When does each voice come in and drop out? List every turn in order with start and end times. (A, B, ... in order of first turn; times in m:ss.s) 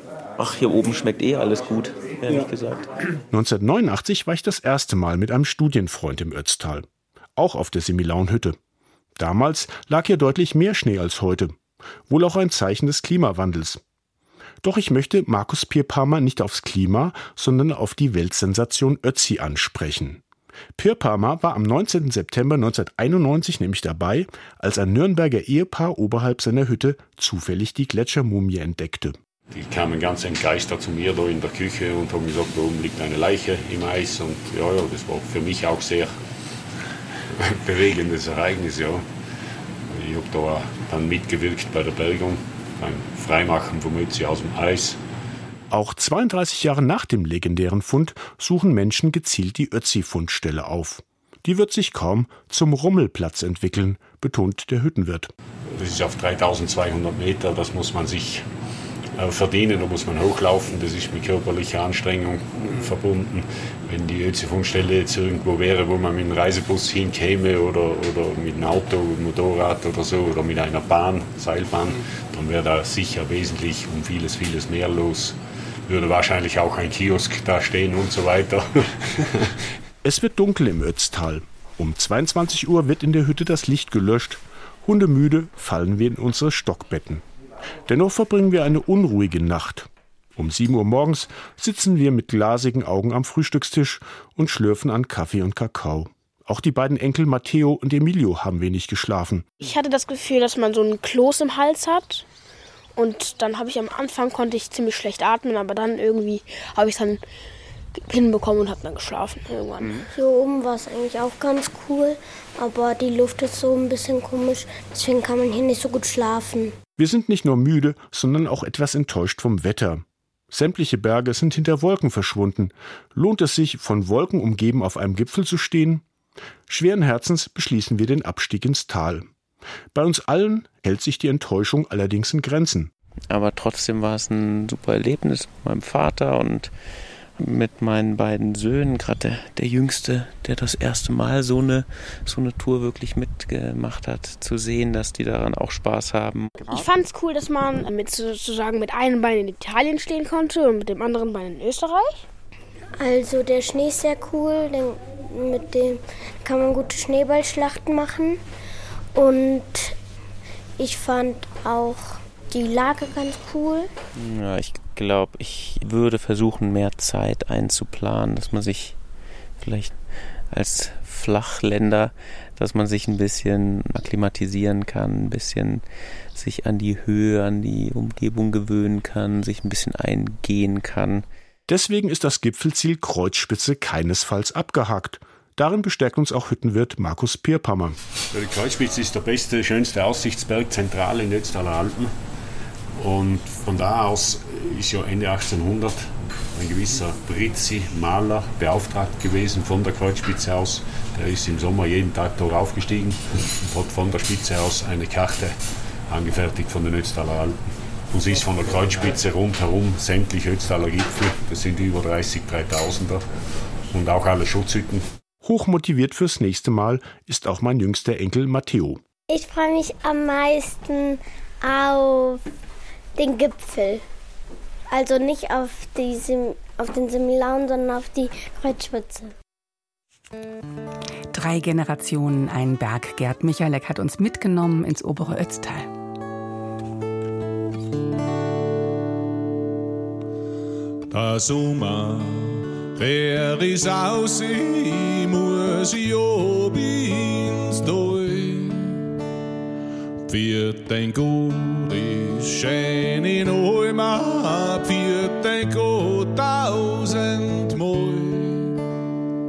0:00.4-0:02.9 A
0:03.3-0:08.6 B
0:09.2-0:11.6 B
0:12.1-0:13.8 B
0:14.6-0:20.2 B
0:20.8-0:29.2 B
0:29.5-0:36.2 C
0:37.4-0:39.0 C
0:39.9-0:45.0 C
0:45.7-0:55.3 B
0:55.7-0:58.4 C
0:59.2-1:15.4 C
1:15.9-1:19.5 C
1:20.0-1:27.2 B
1:27.9-1:39.5 B
1:39.6-1:42.2 D
1:43.0-1:47.2 D
1:48.0-1:50.1 D
1:50.1-1:56.7 E
1:57.0-2:06.0 B
2:06.7-2:09.3 B
2:09.9-2:12.9 B
2:13.3-2:16.7 A
2:17.4-2:26.5 A
2:26.6-2:32.2 D
2:33.0-2:38.4 E
2:39.2-2:39.9 E
2:40.8-2:43.9 E
2:44.2-2:49.0 A
2:49.6-2:50.0 A
2:50.5-3:01.3 A
3:01.7-3:08.0 B
3:08.3-3:12.1 C
3:13.0-3:25.6 C
3:26.1-3:27.6 C
3:28.1-3:33.2 C
3:33.9-3:35.0 C
3:35.4-3:39.0 B
3:39.3-3:42.4 E
3:43.2-3:44.0 E
3:44.9-3:49.3 E
3:51.3-3:55.9 F
4:01.1-4:09.0 G
4:10.3-4:18.8 G